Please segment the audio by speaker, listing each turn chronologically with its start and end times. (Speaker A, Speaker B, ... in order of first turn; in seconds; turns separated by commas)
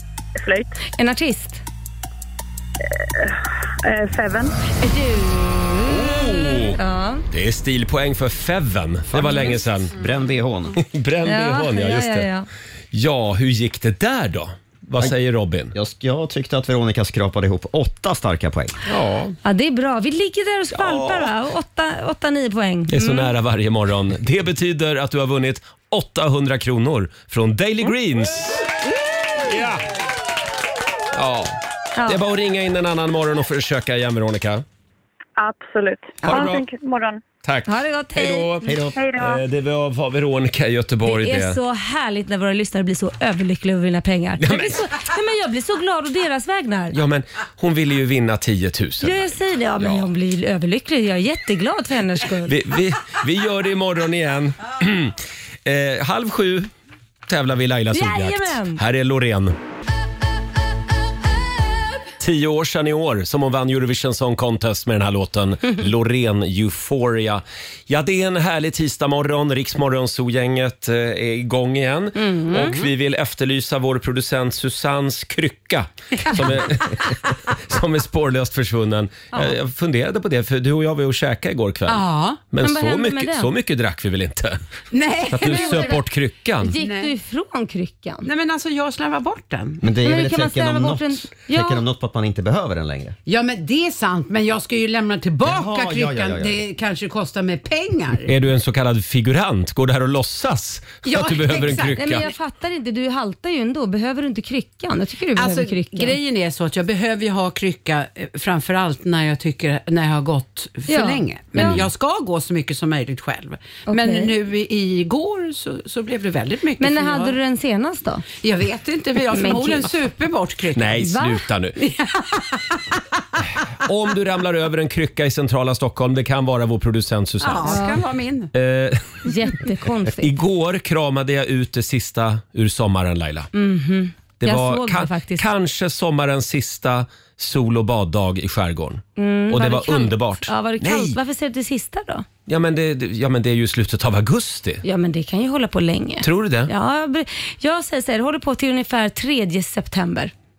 Speaker A: 0.3-0.7, Speaker B: 0.9-1.6, Speaker A: 3.0-4.6, Speaker B: 4.8-7.2, Speaker C: 5.8-6.8, Speaker C: 7.3-9.9, Speaker D: 9.1-10.8, Speaker C: 10.8-12.3, Speaker B: 11.2-12.4, Speaker C: 12.9-15.7, Speaker D: 15.7-18.7, Speaker C: 18.9-19.4, Speaker B: 19.4-23.3, Speaker C: 20.8-21.3, Speaker C: 22.9-28.7, Speaker C: 29.4-29.8, Speaker C: 31.1-34.6, Speaker A: 35.4-37.2, Speaker C: 36.2-36.6, Speaker C: 37.4-41.6, Speaker B: 37.7-38.6, Speaker D: 38.6-39.0, Speaker A: 39.0-39.4, Speaker B: 41.0-46.9, Speaker C: 44.4-44.9, Speaker C: 46.9-50.1, Speaker B: 49.0-52.5, Speaker C: 52.4-56.7, Speaker C: 57.3-59.5, Speaker B: 57.9-58.8, Speaker C: 62.2-84.6, Speaker B: 72.1-72.7, Speaker E: 72.6-72.8, Speaker E: 81.9-82.4, Speaker B: 82.6-83.5, Speaker E: 84.9-86.1, Speaker C: 85.3-86.8, Speaker B: 86.6-88.3, Speaker E: 86.7-87.1, Speaker E: 88.2-89.9, Speaker D: 89.8-93.1, Speaker B: 90.0-91.8, Speaker E: 93.2-98.3, Speaker D: 95.4-96.6, Speaker C: 98.2-102.2, Speaker E: 101.0-102.2, Speaker B: 102.0-106.2, Speaker E: 105.3-117.3, Speaker B: 110.9-111.8, Speaker C: 111.6-111.9, Speaker B: 113.9-114.3, Speaker B: 116.8-118.2, Speaker E: 118.4-121.1, Speaker B: 119.3-119.9, Speaker C: 120.7-121.8, Speaker B: 121.0-121.4, Speaker E: 121.8-123.0, Speaker C: 123.8-127.9, Speaker E: 127.4-128.5, Speaker B: 127.7-128.0, Speaker C: 128.5-129.2, Speaker B: 129.2-130.3, Speaker C: 130.2-133.5, Speaker B: 133.5-135.5, Speaker C: 134.4-141.2, Speaker B: 139.2-142.2, Speaker C: 142.5-144.8, Speaker B: 144.8-150.3, Speaker C: 146.2-146.7